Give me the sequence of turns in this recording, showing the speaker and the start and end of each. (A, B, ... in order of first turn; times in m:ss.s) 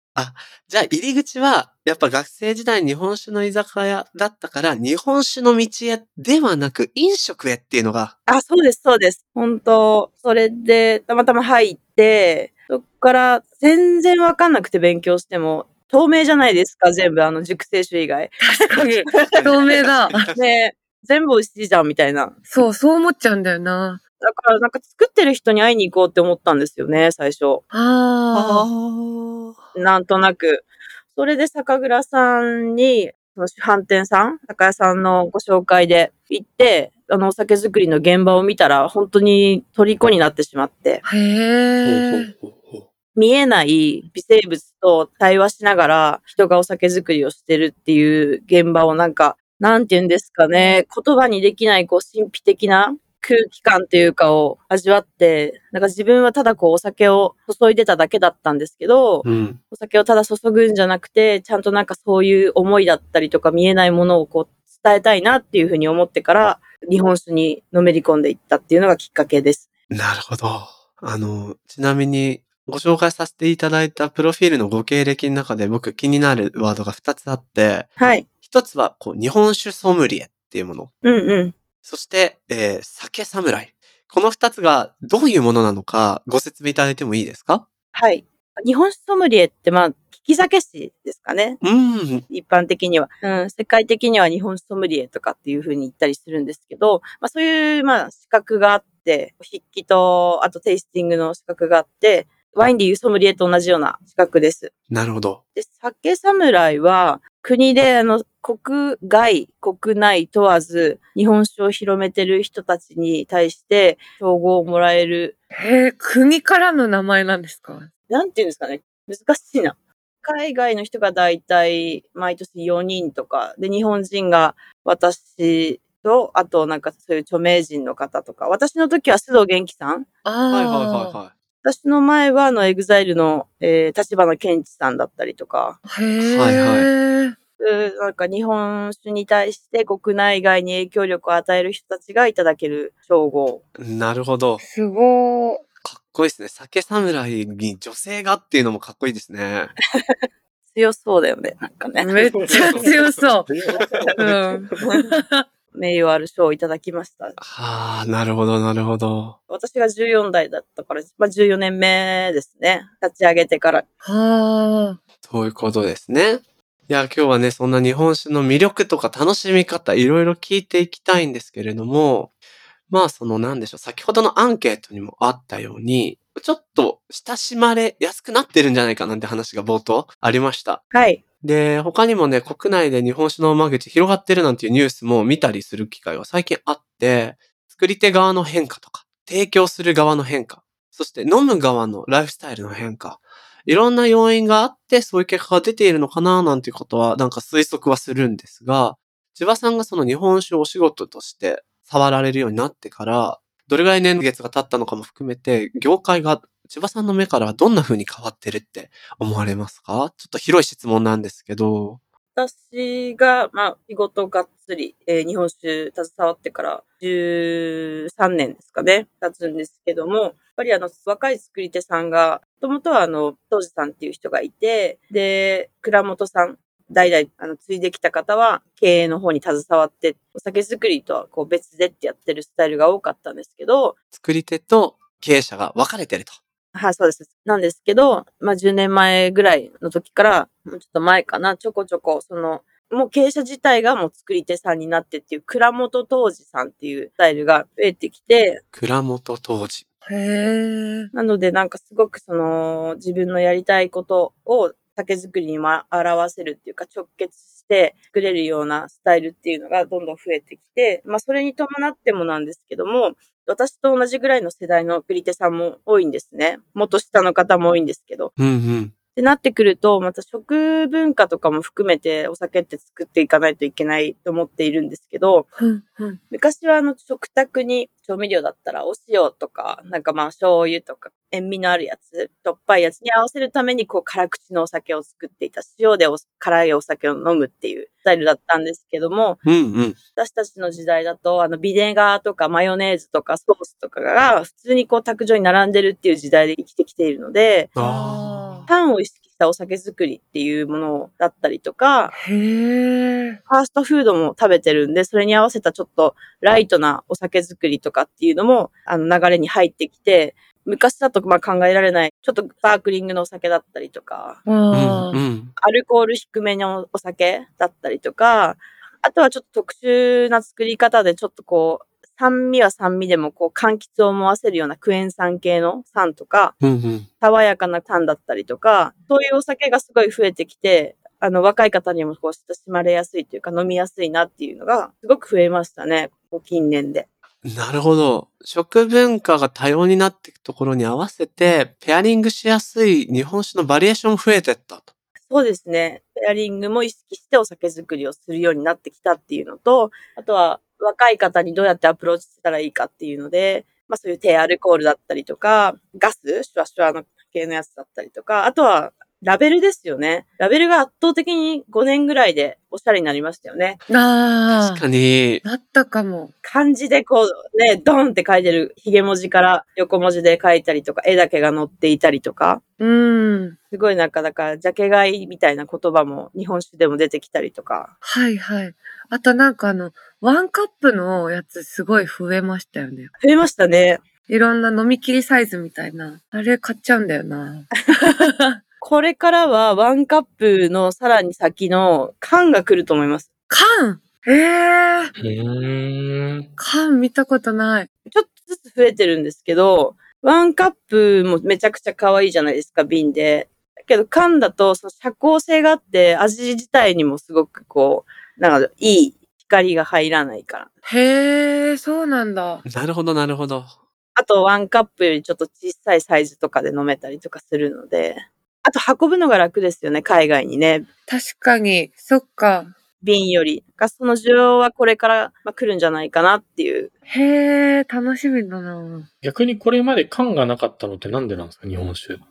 0:00.2-0:08.1 A
0:08.3-0:19.5 B
0:18.4-0:20.3 C
0:18.7-0:20.4 A
0:20.3-0:22.4 B
0:22.5-0:24.0 C
0:24.2-0:27.6 B
0:27.7-0:28.7 C
0:28.3-0:29.6 A
0:29.7-0:41.0 B
0:41.0-0:42.3 C
0:41.8-0:42.8 A
0:43.2-1:09.7 B
0:59.2-0:59.6 A
1:09.9-1:20.9 A
1:18.0-1:18.3 B
1:21.0-1:21.6 B
1:21.8-1:27.6 A
1:27.9-1:31.6 B
1:31.6-1:32.2 A
1:32.3-1:44.7 B
1:44.9-1:45.4 A
1:45.6-1:55.3 B
1:55.5-1:57.9 C
1:58.1-2:10.0 B
2:10.2-2:11.2 C
2:10.5-2:11.3 A
2:11.6-2:15.8 B
2:15.8-2:17.4 C
2:16.2-2:16.9 A
2:17.6-2:23.6 B
2:23.8-2:24.6 A
2:24.6-2:25.6 C
2:25.8-2:29.7 A
2:30.7-2:32.4 B
2:32.0-2:33.5 C
2:32.3-2:34.2 D
2:32.5-2:33.1 A
2:33.9-2:35.1 B
2:34.2-2:35.4 C
2:35.7-2:37.4 B
2:37.4-2:39.4 A
2:39.5-2:43.8 B
2:44.0-2:45.0 C
2:45.2-2:52.3 A
2:52.9-3:00.8 A
3:00.9-3:01.2 B
3:01.4-3:32.0 A
3:32.3-3:53.9 B
3:54.1-3:56.4 A
3:56.7-4:08.6 B
4:08.7-4:09.8 A
4:10.0-4:11.1 C
4:11.1-4:28.3 B
4:28.4-4:28.9 A
4:29.2-4:35.5 B
4:35.6-4:36.2 C
4:36.3-4:49.4 B
4:49.4-4:50.0 A
4:50.2-4:57.7 B
4:57.8-4:58.7 C
4:57.8-4:58.6 A
4:58.7-5:02.1 B
5:02.1-5:03.4 C
5:03.5-5:14.4 B
5:14.5-5:15.2 C
5:14.7-5:15.5 A
5:15.6-5:26.5 B
5:26.6-5:27.1 A
5:27.2-5:37.0 B
5:37.4-5:44.9 A
5:45.3-6:03.8 B
6:03.9-6:04.8 C
6:04.5-6:05.4 A
6:05.4-6:06.3 C
6:06.4-6:12.6 B
6:12.8-6:13.6 C
6:13.7-6:17.9 B
6:18.0-6:23.1 C
6:23.2-6:24.0 B
6:24.3-6:28.6 C
6:28.8-6:33.3 B
6:33.5-6:35.1 C
6:35.2-6:36.5 D
6:36.6-6:37.9 C
6:38.1-6:50.7 B
6:50.8-6:52.6 C
6:52.6-6:53.7 A
6:54.2-7:00.9 B
7:01.1-7:02.7 C
7:03.0-7:06.9 B
7:07.1-7:09.1 C
7:09.2-7:12.2 D